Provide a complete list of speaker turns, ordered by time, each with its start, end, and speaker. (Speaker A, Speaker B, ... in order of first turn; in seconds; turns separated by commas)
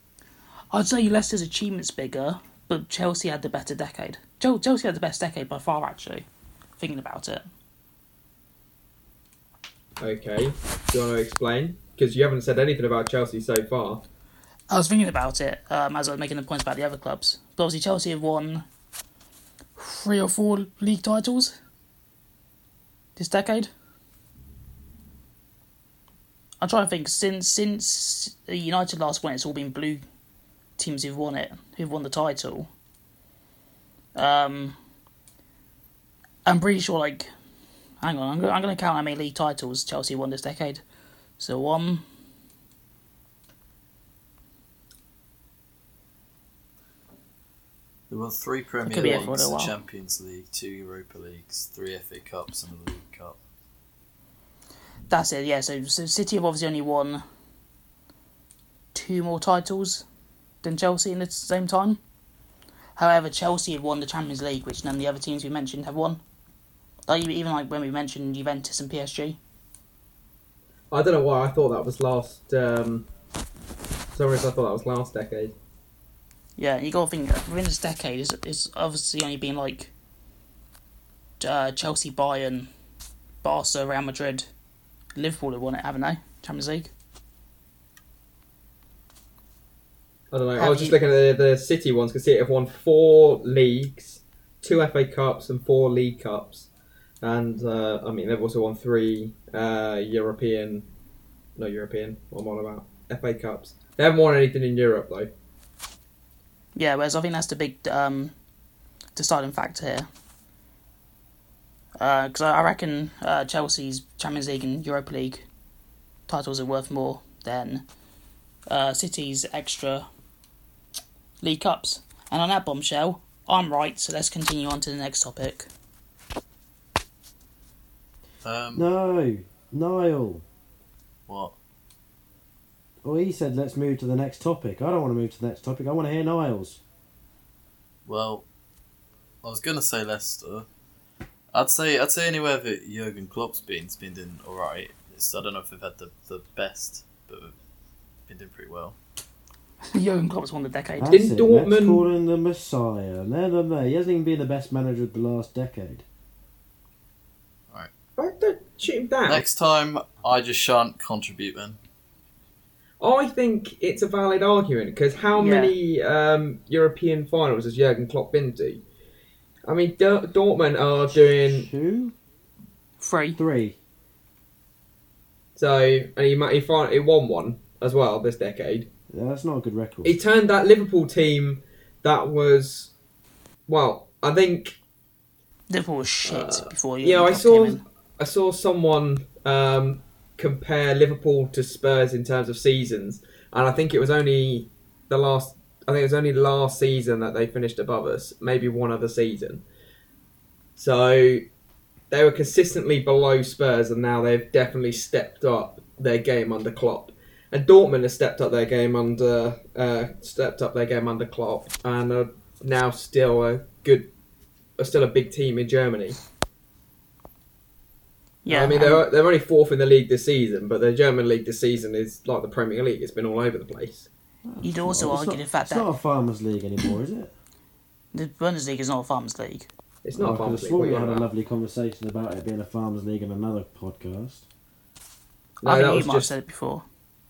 Speaker A: 0.7-6.2, Speaker A: 6.8-7.4, Speaker B: 10.0-14.0, Speaker A: 14.7-18.6, Speaker A: 19.8-21.6, Speaker A: 23.1-23.7, Speaker A: 26.6-30.0, Speaker A: 30.8-32.7, Speaker A: 34.1-34.8, Speaker A: 36.4-37.3, Speaker A: 38.0-40.8, Speaker A: 41.4-42.0, Speaker C: 48.1-53.4, Speaker A: 48.8-49.8, Speaker A: 55.1-57.2, Speaker A: 58.9-60.0, Speaker A: 60.6-62.0, Speaker A: 63.0-66.2, Speaker A: 67.1-69.4, Speaker B: 70.9-73.1, Speaker B: 74.1-75.5, Speaker A: 76.6-79.9, Speaker A: 81.4-82.7, Speaker A: 83.4-84.4, Speaker A: 85.1-86.9, Speaker B: 90.3-96.7, Speaker A: 90.6-91.0, Speaker B: 97.2-100.9, Speaker B: 101.6-105.3, Speaker A: 106.8-108.3, Speaker A: 109.1-110.1, Speaker A: 112.0-115.4, Speaker A: 116.3-117.8, Speaker A: 118.7-120.0, Speaker A: 121.4-125.7, Speaker C: 128.4-128.8, Speaker D: 128.7-130.4, Speaker C: 131.3-131.5, Speaker D: 133.0-136.8, Speaker C: 138.1-138.4, Speaker C: 139.4-140.7, Speaker C: 141.5-147.5, Speaker C: 148.3-148.9, Speaker A: 149.9-151.2, Speaker D: 151.0-156.0, Speaker B: 151.1-152.0, Speaker B: 158.2-159.4, Speaker C: 159.3-161.8, Speaker B: 163.0-168.8, Speaker A: 165.3-165.7, Speaker B: 169.7-171.7, Speaker D: 171.4-172.1, Speaker A: 173.0-173.4, Speaker D: 173.3-173.8, Speaker B: 175.6-178.9, Speaker D: 179.1-180.2, Speaker B: 180.0-182.9, Speaker B: 183.7-184.8, Speaker A: 185.7-187.8, Speaker B: 186.2-199.6, Speaker B: 200.8-201.4, Speaker B: 202.1-214.1, Speaker B: 214.8-216.2, Speaker A: 218.4-219.0, Speaker B: 218.5-224.1, Speaker D: 224.4-227.3, Speaker A: 224.6-225.9, Speaker A: 228.1-229.7, Speaker B: 230.0-231.3, Speaker D: 230.1-234.4, Speaker B: 235.6-236.3, Speaker A: 235.6-236.8